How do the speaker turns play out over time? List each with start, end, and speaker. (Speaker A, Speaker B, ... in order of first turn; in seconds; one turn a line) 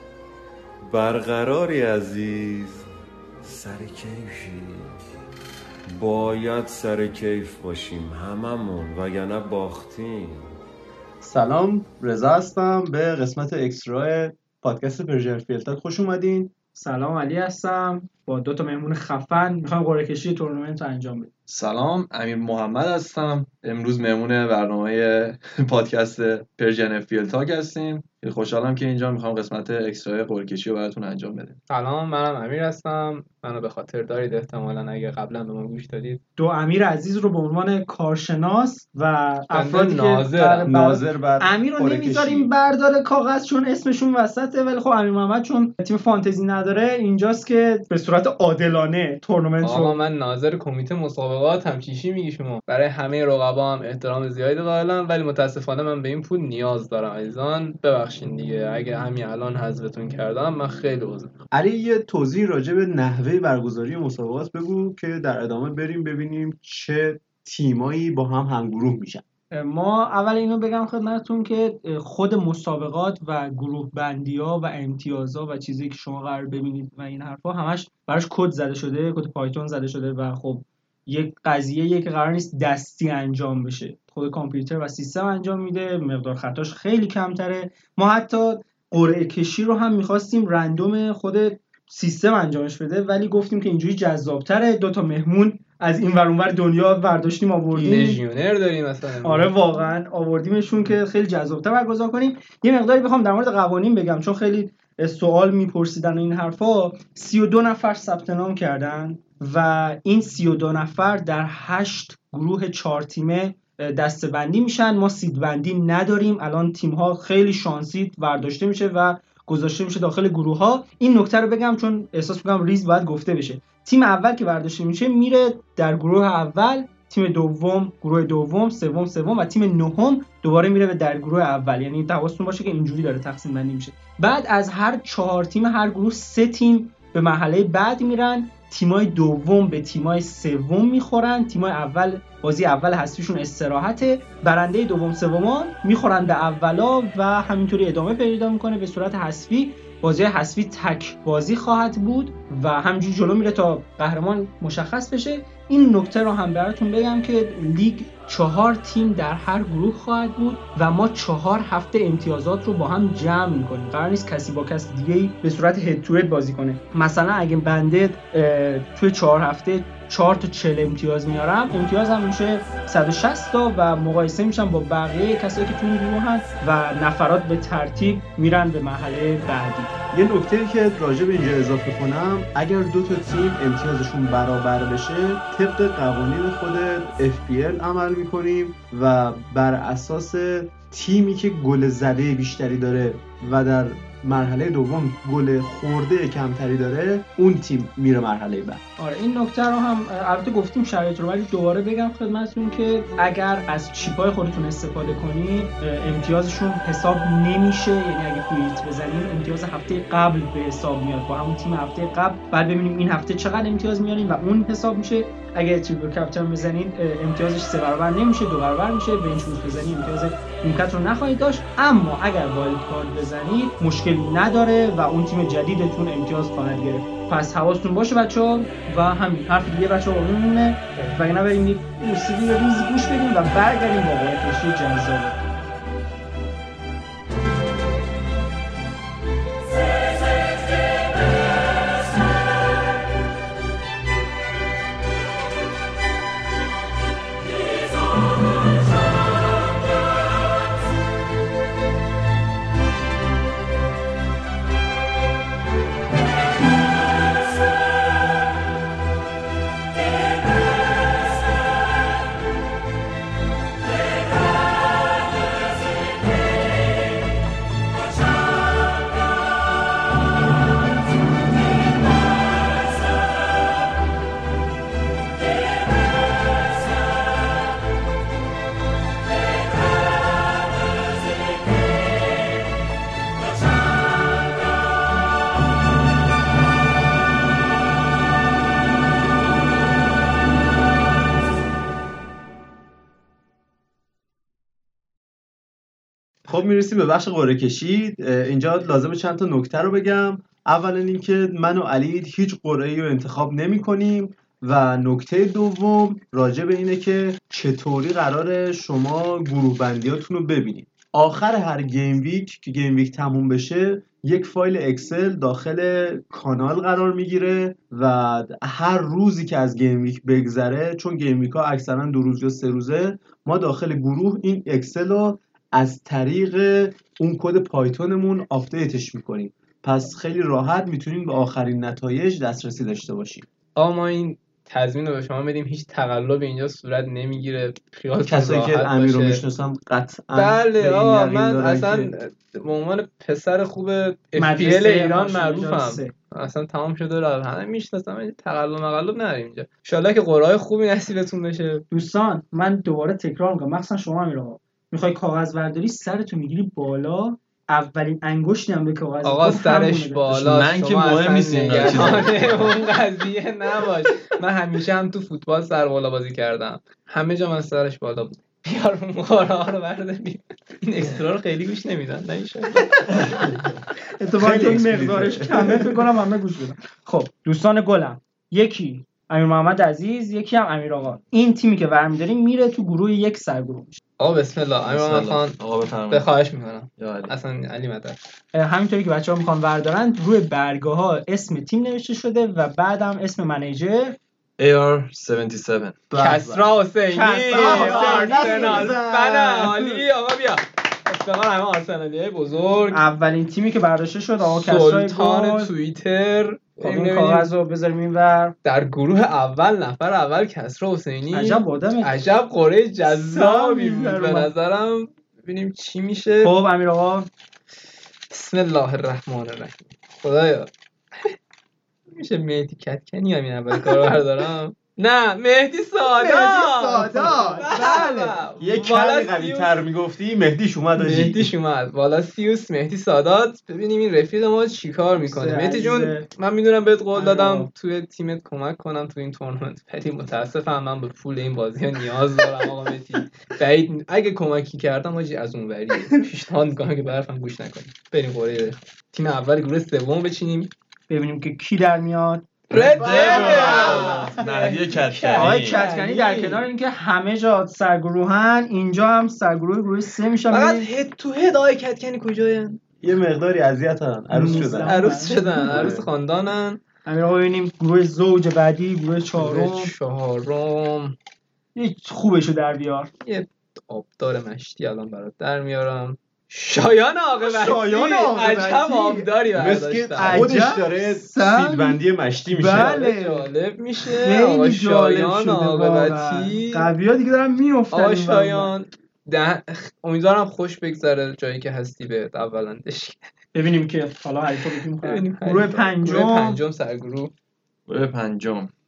Speaker A: 0.8-2.9
Speaker A: 3.4-4.8
Speaker A: 5.9-10.5
Speaker B: 11.2-16.5
Speaker C: 16.8-21.3
Speaker D: 21.5-31.6
Speaker E: 31.7-36.2
Speaker C: 36.4-50.0
Speaker E: 39.5-40.7
Speaker B: 40.6-42.5
Speaker E: 49.6-61.4
Speaker B: 61.5-69.2
Speaker C: 69.5-98.2
Speaker E: 97.8-99.5
Speaker C: 99.2-179.9
Speaker B: 180.1-198.8
Speaker C: 199.0-235.4
Speaker B: 296.5-333.5
Speaker E: 333.8-339.4
Speaker B: 338.2-342.1
Speaker E: 340.3-351.8
Speaker C: 344.4-346.1
Speaker C: 351.9-360.3
Speaker E: 359.2-373.6
Speaker D: 360.3-362.8
Speaker C: 374.2-384.0
Speaker B: 374.4-376.1
Speaker E: 384.2-385.6
Speaker D: 384.9-386.3
Speaker E: 386.1-388.2
Speaker D: 387.0-387.3
Speaker C: 388.5-394.2
Speaker D: 394.6-396.0
Speaker B: 396.1-396.7
Speaker E: 396.1-403.0
Speaker C: 397.1-399.0
Speaker B: 397.5-399.9
Speaker C: 402.9-405.7
Speaker E: 404.4-407.5
Speaker C: 406.8-408.6
Speaker E: 408.6-416.5
Speaker C: 411.3-412.2
Speaker C: 413.1-414.5
Speaker C: 416.4-417.3
Speaker E: 418.3-421.4
Speaker E: 422.1-429.8
Speaker C: 426.1-428.4
Speaker B: 427.0-427.6
Speaker B: 428.6-431.5
Speaker E: 431.0-450.7
Speaker C: 435.2-436.3
Speaker C: 437.1-437.7
Speaker C: 451.1-454.5
Speaker E: 452.7-456.6
Speaker D: 452.7-455.8
Speaker C: 455.4-460.9
Speaker E: 460.5-462.8
Speaker B: 463.0-466.1
Speaker C: 464.3-466.0
Speaker E: 464.9-466.8
Speaker C: 467.1-469.9
Speaker E: 469.4-471.2
Speaker C: 471.8-473.1
Speaker E: 473.2-480.6
Speaker C: 477.4-479.3
Speaker B: 479.6-483.0
Speaker C: 480.2-482.0
Speaker C: 482.5-483.5
Speaker E: 482.7-486.9
Speaker C: 484.1-488.7
Speaker E: 487.9-493.2
Speaker C: 493.5-496.6
Speaker E: 495.0-497.3
Speaker D: 497.9-498.7